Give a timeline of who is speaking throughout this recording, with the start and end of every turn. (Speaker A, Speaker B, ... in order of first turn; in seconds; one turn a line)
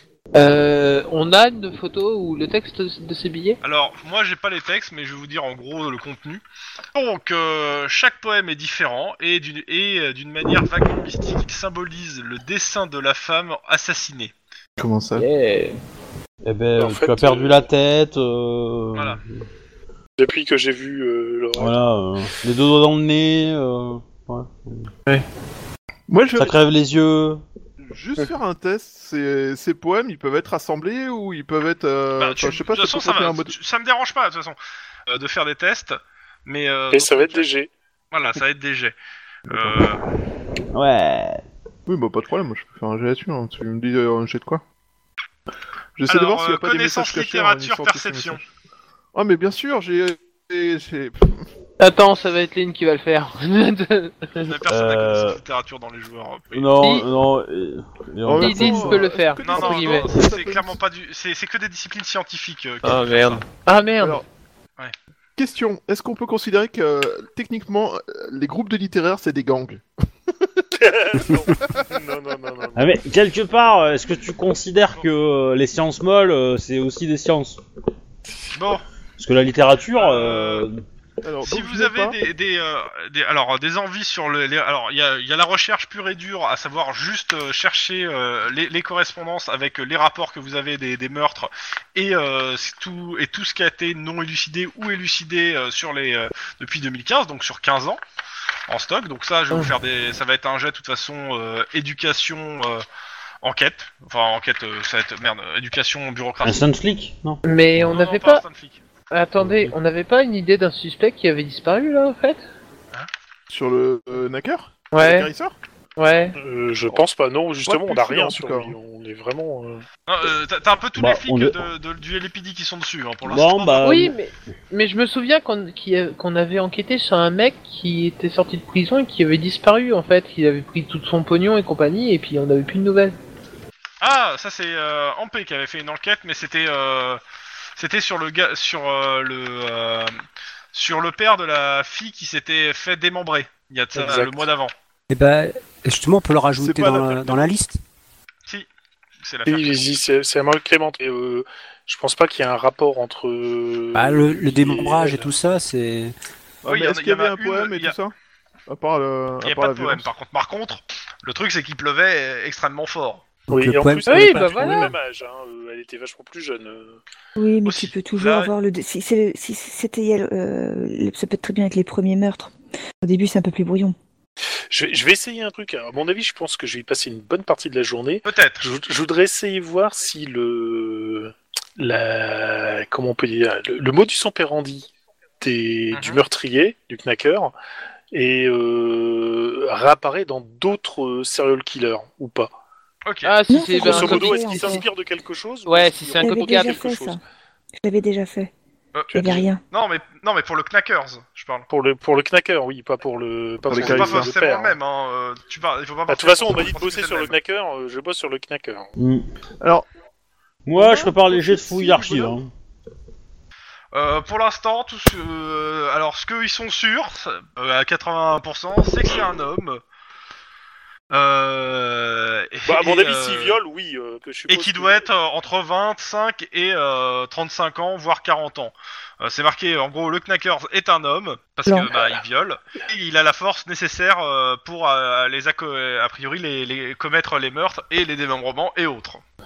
Speaker A: 0.3-3.6
Speaker B: 3.6-6.4
Speaker B: 6.9-14.3
Speaker C: 14.8-15.3
Speaker A: 15.2-15.8
Speaker D: 16.4-19.5
Speaker E: 16.8-17.7
Speaker B: 18.9-19.2
Speaker E: 20.2-21.8
Speaker D: 21.6-24.9
Speaker C: 26.1-26.6
Speaker D: 26.4-27.4
Speaker C: 27.9-33.5
Speaker B: 32.2-34.6
Speaker B: 35.1-37.5
Speaker E: 36.9-37.7
Speaker B: 38.1-39.0
Speaker C: 39.5-39.8
Speaker B: 39.5-40.0
Speaker D: 40.7-41.4
Speaker C: 41.9-44.6
Speaker C: 46.0-48.5
Speaker B: 46.1-48.4
Speaker C: 49.1-51.5
Speaker A: 51.8-54.5
Speaker B: 54.4-56.7
Speaker D: 54.7-55.4
Speaker D: 56.5-59.0
Speaker A: 56.8-57.1
Speaker C: 58.2-60.8
Speaker A: 58.4-60.1
Speaker B: 59.4-63.4
Speaker A: 62.8-64.2
Speaker C: 65.4-69.8
Speaker E: 70.8-72.9
Speaker D: 72.7-77.6
Speaker B: 78.5-78.8
Speaker D: 79.2-80.8
Speaker B: 79.9-80.7
Speaker C: 81.2-82.2
Speaker B: 81.4-98.0
Speaker B: 98.7-102.8
Speaker B: 103.4-106.6
Speaker D: 106.4-107.4
Speaker A: 107.4-108.4
Speaker B: 107.8-108.8
Speaker A: 109.1-112.4
Speaker D: 109.4-109.7
Speaker C: 113.5-115.5
Speaker A: 114.9-115.3
Speaker A: 116.0-116.4
Speaker E: 116.4-119.8
Speaker C: 117.7-118.8
Speaker B: 120.1-124.0
Speaker D: 121.0-121.6
Speaker D: 123.2-124.2
Speaker A: 123.8-133.2
Speaker B: 134.0-137.2
Speaker B: 137.8-140.2
Speaker B: 140.7-144.7
Speaker E: 143.9-144.4
Speaker F: 145.1-147.8
Speaker C: 146.6-147.5
Speaker B: 149.2-149.9
Speaker E: 149.4-155.3
Speaker F: 153.9-156.1
Speaker C: 156.6-158.1
Speaker B: 156.7-157.9
Speaker C: 158.7-160.1
Speaker B: 159.4-163.2
Speaker F: 163.5-164.9
Speaker E: 163.5-167.0
Speaker A: 164.1-164.9
Speaker G: 167.4-173.9
Speaker B: 167.6-168.5
Speaker E: 174.7-187.5
Speaker B: 178.2-178.7
Speaker B: 185.9-186.2
Speaker E: 188.1-192.5
Speaker B: 193.0-193.3
Speaker A: 193.2-194.8
Speaker G: 193.5-194.8
Speaker E: 193.8-196.9
Speaker A: 195.7-197.1
Speaker G: 196.2-197.2
Speaker G: 197.8-198.5
Speaker B: 198.9-201.7
Speaker G: 199.1-199.6
Speaker E: 199.1-199.4
Speaker E: 201.7-204.8
Speaker C: 203.7-204.3
Speaker B: 203.7-207.4
Speaker E: 206.1-208.9
Speaker D: 209.0-209.3
Speaker C: 209.6-209.9
Speaker D: 210.7-212.5
Speaker C: 210.7-212.4
Speaker B: 213.9-219.8
Speaker B: 221.1-223.6
Speaker E: 222.7-225.1
Speaker B: 224.5-239.2